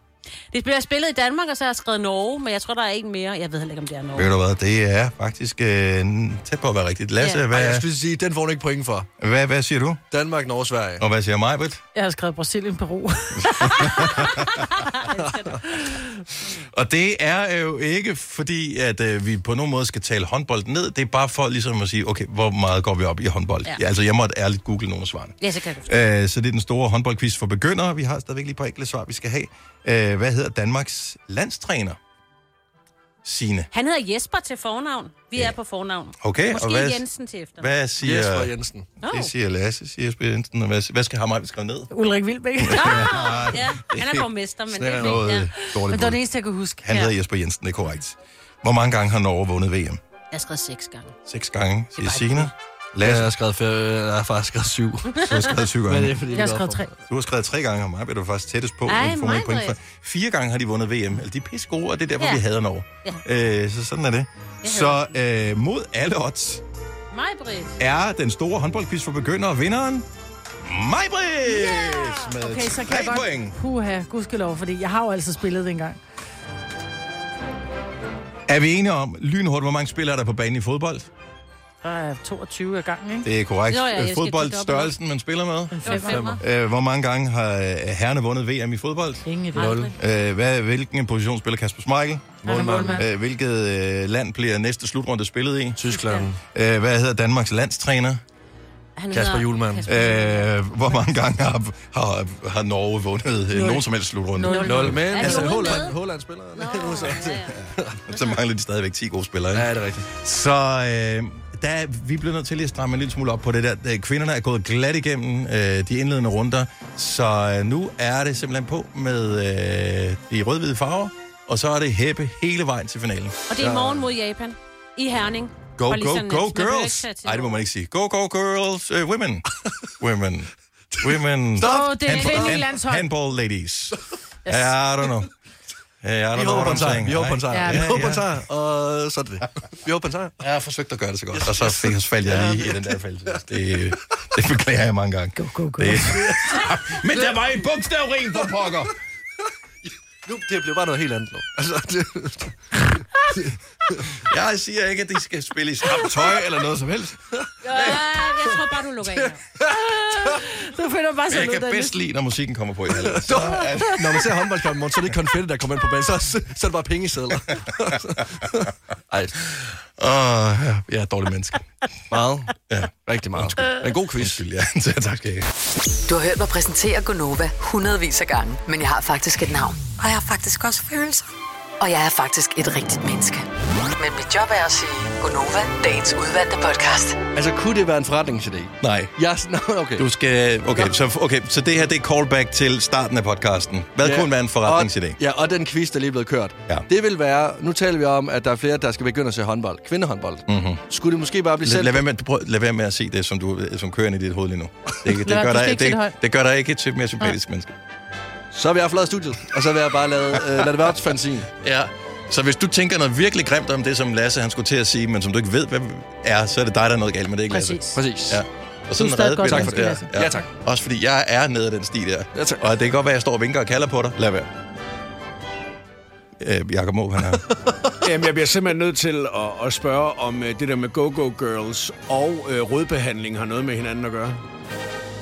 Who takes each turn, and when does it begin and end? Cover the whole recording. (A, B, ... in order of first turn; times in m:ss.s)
0:00.5-0:04.3 A
0:04.2-0:07.9 B
0:07.5-0:09.1 C
0:09.2-0:10.0 B
0:10.1-0:11.0 C
0:11.0-0:11.8 B
0:12.0-0:14.3 D
0:13.6-0:14.6 B
0:14.7-0:16.7 A
0:16.6-0:25.4 B
0:25.4-0:26.0 A
0:25.9-0:32.0 B
0:33.2-0:33.7 B
0:33.7-0:37.7 A
0:36.2-0:37.0 B
0:37.6-0:41.9 B
0:38.0-0:38.9 C
0:39.0-0:39.3 A
0:41.9-0:43.2 D
0:42.6-0:44.3 B
0:42.7-0:45.5 A
0:44.8-0:45.2 C
0:45.0-0:46.2 B
0:45.9-0:46.9 D
0:46.8-0:50.0 B
0:50.3-0:51.1 A
0:51.3-0:53.3 B
0:52.0-0:52.5 A
0:53.0-0:55.2 C
0:55.2-0:56.2 B
0:55.8-0:56.9 C
0:56.3-0:56.9 D
0:57.1-1:06.6 B
0:58.9-0:59.8 A
1:04.6-1:05.2 A
1:07.1-1:07.8 A
1:07.8-1:10.1 B
1:10.6-1:13.6 B
1:11.8-1:16.0 D
1:18.5-1:21.1 B
1:21.8-1:23.3 D
1:23.2-1:29.2 B
1:23.7-1:25.0 A
1:25.7-1:26.4 D
1:25.8-1:26.4 A
1:26.0-1:26.4 C
1:29.2-1:29.9 D
1:29.6-1:29.9 C
1:30.0-1:35.8 B
1:32.4-1:33.1 D
1:32.4-1:33.1 C
1:35.8-1:36.4 C
1:35.9-1:36.3 D
1:36.5-1:38.2 B
1:39.0-1:40.5 A
1:39.1-1:39.9 C
1:39.9-1:45.8 B
1:43.5-1:45.3 D
1:44.6-1:48.0 C
1:45.1-1:46.0 A
1:46.6-1:47.6 A
1:48.1-2:03.4 B
1:48.1-1:48.4 A
1:49.5-1:50.1 C
2:03.5-2:07.6 A
2:03.6-2:04.0 C
2:05.8-2:09.4 B
2:10.0-2:10.5 B
2:11.0-2:12.7 C
2:11.0-2:15.3 B
2:11.6-2:13.1 D
2:14.5-2:14.7 D
2:16.0-2:18.4 B
2:16.4-2:20.4 C
2:17.5-2:18.0 D
2:20.4-2:28.9 B
2:21.3-2:23.4 C
2:25.4-2:26.2 D
2:26.1-2:27.2 C
2:29.8-2:34.1 C
2:34.1-2:38.0 B
2:37.6-2:39.4 A
2:39.7-2:42.0 D
2:41.3-2:44.5 B
2:43.0-2:49.3 C
2:49.6-2:51.7 B
2:52.1-2:52.5 C
2:52.7-2:55.5 B
2:53.1-2:54.4 C
2:56.1-3:01.2 E
3:01.8-3:07.2 E
3:07.4-3:10.1 C
3:08.8-3:09.2 B
3:10.0-3:15.2 B
3:14.0-3:22.0 C
3:20.5-3:20.8 B
3:21.6-3:27.7 B
3:25.2-3:26.2 D
3:28.5-3:31.5 C
3:31.6-3:44.5 B
3:37.5-3:38.0 D
3:38.0-3:38.4 C
3:39.0-3:40.2 D
3:39.5-3:40.5 C
3:42.3-3:42.7 C
3:46.4-3:47.4 B
3:47.3-3:47.9 C
3:48.0-3:54.4 F